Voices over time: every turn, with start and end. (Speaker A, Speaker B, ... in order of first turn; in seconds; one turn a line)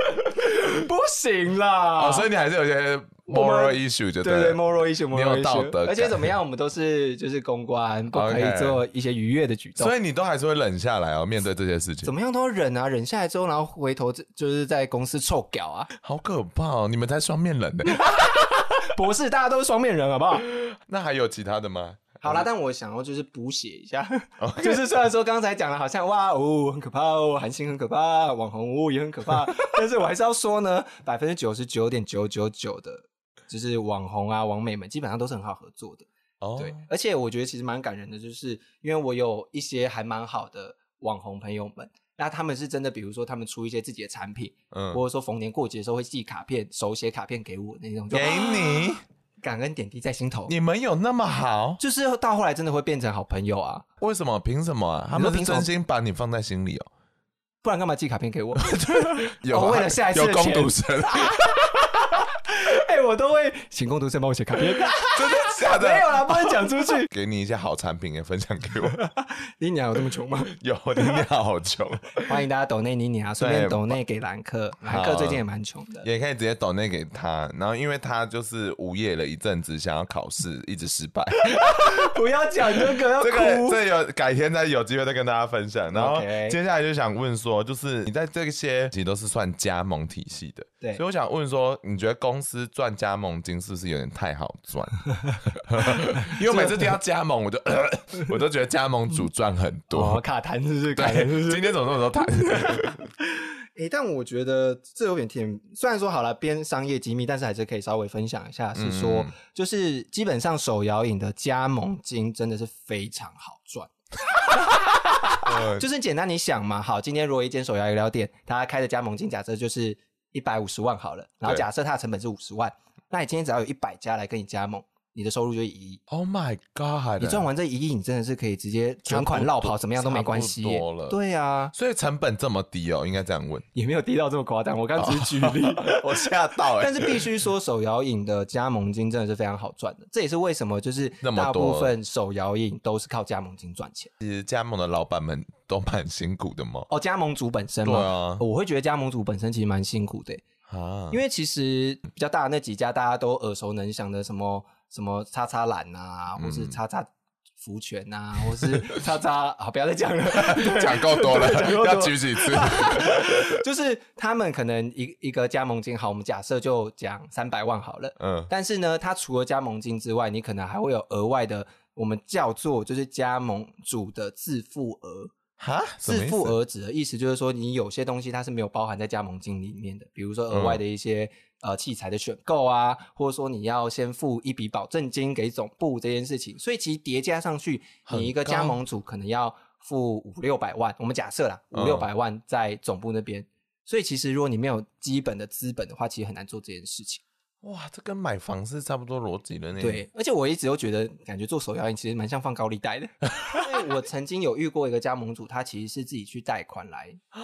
Speaker A: 0.2-0.8
Speaker B: 0.5-2.3
Speaker A: 2.0-4.6
Speaker B: 3.3-9.9
Speaker A: 5.1-6.3
Speaker A: 8.1-8.8
Speaker A: 9.8-12.1
Speaker B: 12.0-15.9
Speaker A: 16.0-18.1
Speaker B: 17.9-20.5
Speaker A: 20.5-22.5
Speaker B: 22.2-50.5
Speaker A: 24.4-24.9
Speaker A: 36.4-36.8
Speaker A: 44.7-45.0
Speaker A: 48.1-49.0
Speaker A: 50.5-51.8
Speaker B: 51.8-53.9
Speaker A: 54.0-56.9
Speaker B: 55.1-55.7
Speaker B: 57.6-67.1
Speaker A: 58.6-61.5
Speaker A: 65.0-69.0
Speaker B: 69.0-70.5
Speaker A: 70.5-72.3
Speaker B: 72.2-76.1
Speaker A: 73.4-73.9
Speaker A: 74.8-75.4
Speaker A: 76.0-82.1
Speaker B: 81.4-83.8
Speaker A: 82.8-100.2
Speaker B: 85.9-86.6
Speaker B: 96.4-96.9
Speaker B: 99.9-126.0
Speaker A: 101.0-103.1
Speaker A: 108.8-109.3
Speaker A: 115.4-115.9
Speaker A: 126.1-127.5
Speaker B: 127.2-131.7
Speaker A: 129.1-131.2
Speaker A: 131.7-133.7
Speaker B: 133.8-144.1
Speaker A: 135.0-137.3
Speaker A: 141.2-141.9
Speaker A: 144.2-146.9
Speaker B: 146.9-150.5
Speaker A: 147.8-148.4
Speaker A: 150.7-151.2
Speaker B: 151.1-175.3
Speaker A: 156.4-156.8
Speaker A: 158.5-158.9
Speaker A: 160.3-163.6
Speaker A: 168.2-168.5
Speaker A: 175.6-176.6
Speaker B: 176.1-197.2
Speaker A: 180.5-180.8
Speaker A: 188.1-188.8
Speaker A: 191.7-192.1
Speaker A: 197.6-200.0
Speaker B: 199.8-207.2